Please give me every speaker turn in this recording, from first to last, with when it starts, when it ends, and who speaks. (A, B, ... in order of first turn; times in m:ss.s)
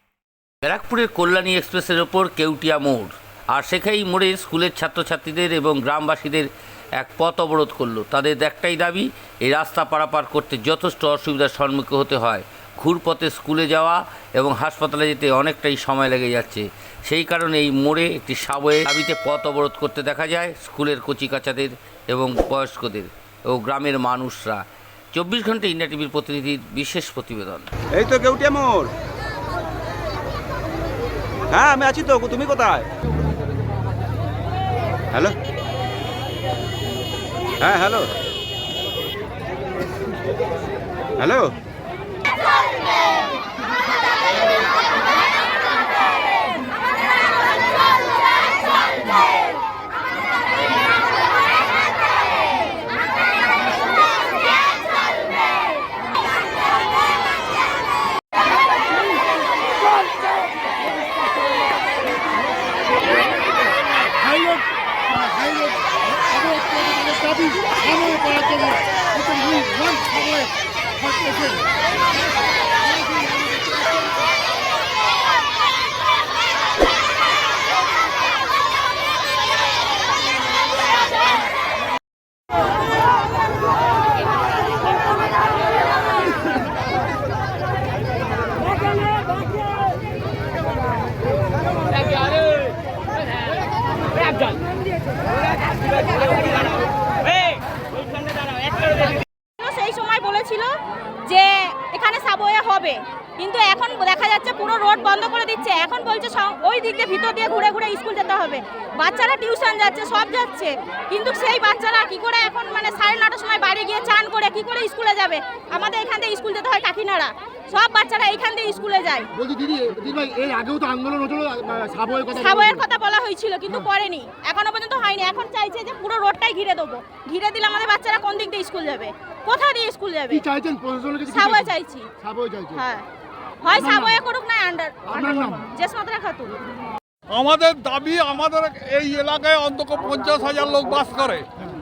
0:00.6-0:24.6 A
0:25.1-0:27.7 A
0:27.9-0:28.9 B
0:31.5-0:32.9 B
0:37.6-0:38.1 B
0:41.2-0:41.5 B
1:04.1-1:11.7 C
1:39.6-1:40.7 D
1:41.3-1:59.3 D
1:59.4-2:02.8 C
2:02.4-2:10.4 D
2:10.3-2:12.8 C
2:11.3-2:12.1 D
2:12.8-2:13.1 D
2:13.6-2:16.5 D
2:13.7-2:14.2 C
2:15.1-2:15.7 C
2:17.3-2:21.5 E